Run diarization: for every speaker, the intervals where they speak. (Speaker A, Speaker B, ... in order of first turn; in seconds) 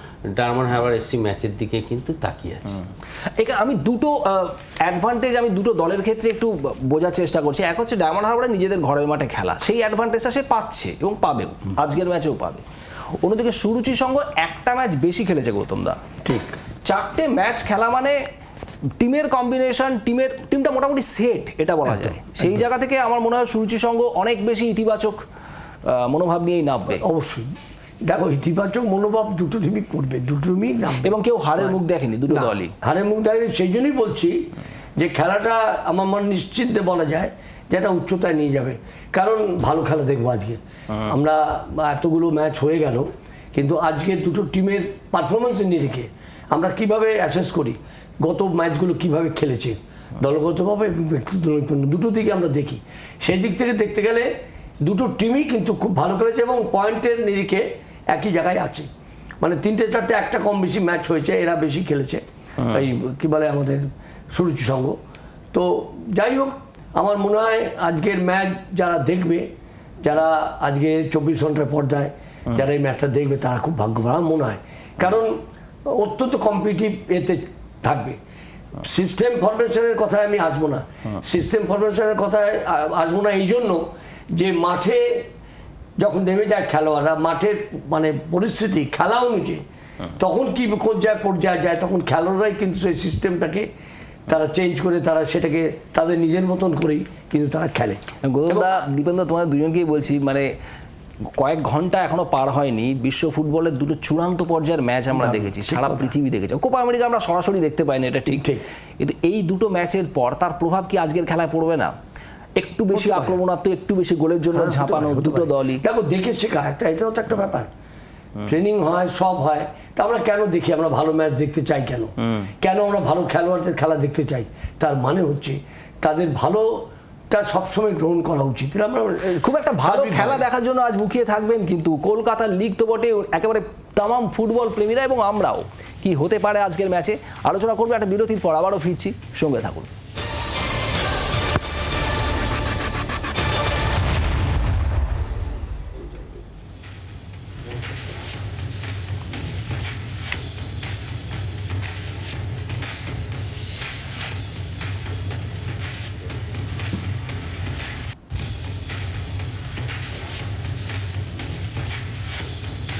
Speaker A: 0.4-2.8
Speaker B: 3.4-12.6, 13.2-16.0, 16.8-18.2, 19.0-25.2, 25.8-27.0, 31.0-32.7, 98.2-100.5, 101.4-108.5, 109.0-111.9, 112.5-115.8, 129.3-139.9
Speaker C: 16.2-16.6, 26.9-27.5, 28.0-31.8, 32.3-34.3, 35.0-54.3, 54.8-58.9, 59.4-65.0, 65.5-69.5, 70.0-75.3, 75.9-78.2, 78.8-83.8, 84.3-85.2, 86.0-89.6, 90.2-93.7, 94.3-98.8, 105.1-106.1, 108.3-108.6, 112.9-113.4, 114.5-117.7, 118.5-130.4